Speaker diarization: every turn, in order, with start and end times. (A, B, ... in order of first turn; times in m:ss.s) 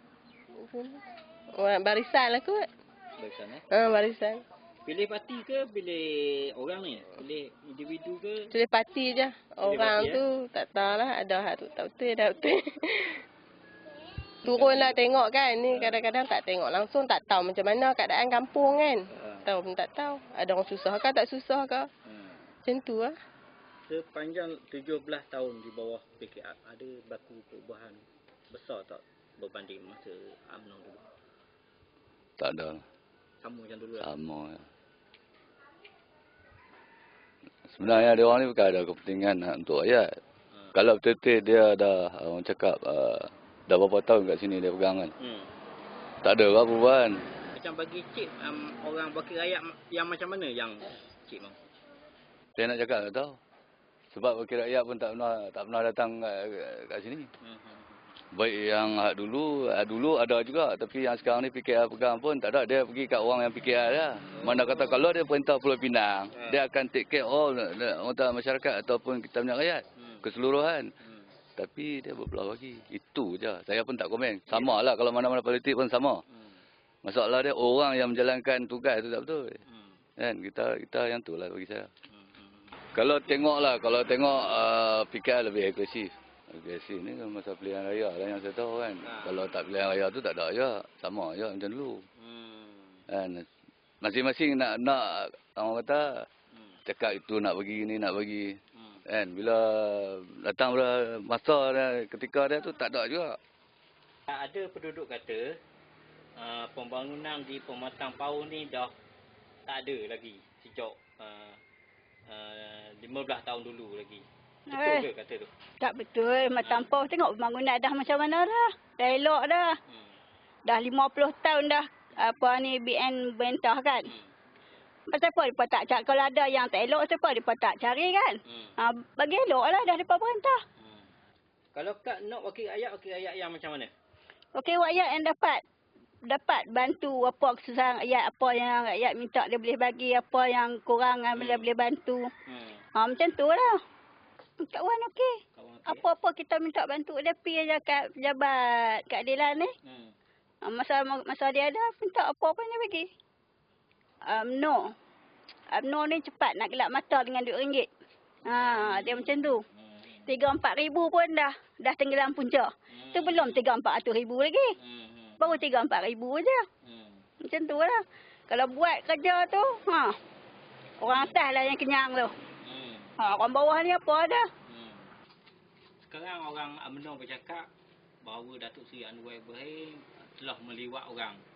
0:00.5-0:00.9 A
0:01.6-0:02.7 A
0:03.2-0:03.6 B
0:03.7-0:04.4 A
0:04.8-0:08.5 B
0:08.5-0:12.6 A
0:09.6-0:10.2 B
0:14.4-0:21.9 A
0:14.4-0:15.1 B
0:15.7-0:16.0 B
0:19.1-0:19.4 B
0:22.1-0:22.4 B
0:22.6-0:23.1 A
0:23.9-0:31.0 B
0:32.4-0:32.8 C
0:33.4-0:34.1 B
0:34.0-0:34.6 C
0:37.7-0:40.2 C
0:40.7-0:45.1 C
0:45.2-0:45.5 B
0:46.2-0:47.2 C
0:47.5-0:51.6 B
0:52.6-0:53.4 C
0:54.1-0:57.3 C
0:57.4-0:58.0 B
0:58.3-1:10.9 C
1:04.3-1:05.0 B
1:06.3-1:06.6 B
1:10.0-1:10.2 B
1:11.0-1:11.3 B
1:11.6-1:16.2 C
1:17.0-1:19.6 C
1:19.7-1:20.0 B
1:20.2-1:21.9 C
1:22.1-1:22.7 B
1:22.9-1:32.0 C
1:29.0-1:29.4 B
1:32.2-1:33.0 B
1:33.1-1:33.4 C
1:34.0-1:36.3 C
1:36.8-1:43.4 C
1:44.3-1:45.6 B
1:46.4-1:48.9 B
1:49.7-1:51.6 B
1:52.3-1:55.5 B
1:54.7-1:55.1 D
1:55.8-1:59.7 D
1:56.6-1:56.9 B
1:59.9-2:00.1 B
2:00.6-2:04.1 D
2:05.1-2:10.5 D
2:08.5-2:08.7 B
2:10.8-2:11.1 B
2:11.7-2:13.9 B
2:14.6-2:15.6 D
2:16.3-2:22.2 D
2:21.3-2:21.7 B
2:22.4-2:22.8 B
2:22.9-2:23.7 D
2:24.6-2:25.3 D
2:25.5-2:26.0 B
2:25.8-2:29.7 D
2:29.8-2:30.1 B
2:30.6-2:33.1 D
2:34.2-2:34.9 D
2:35.7-2:37.9 D
2:38.4-2:39.6 D
2:38.5-2:40.2 B
2:40.2-2:44.7 D
2:42.9-2:43.6 B
2:44.8-2:45.6 B
2:45.4-2:46.6 D
2:46.8-2:47.2 B
2:47.4-2:50.2 D
2:51.0-2:52.3 D
2:52.6-2:53.1 B
2:53.2-2:54.4 D
2:54.6-2:55.1 B
2:56.0-2:57.7 B
2:58.2-3:01.4 B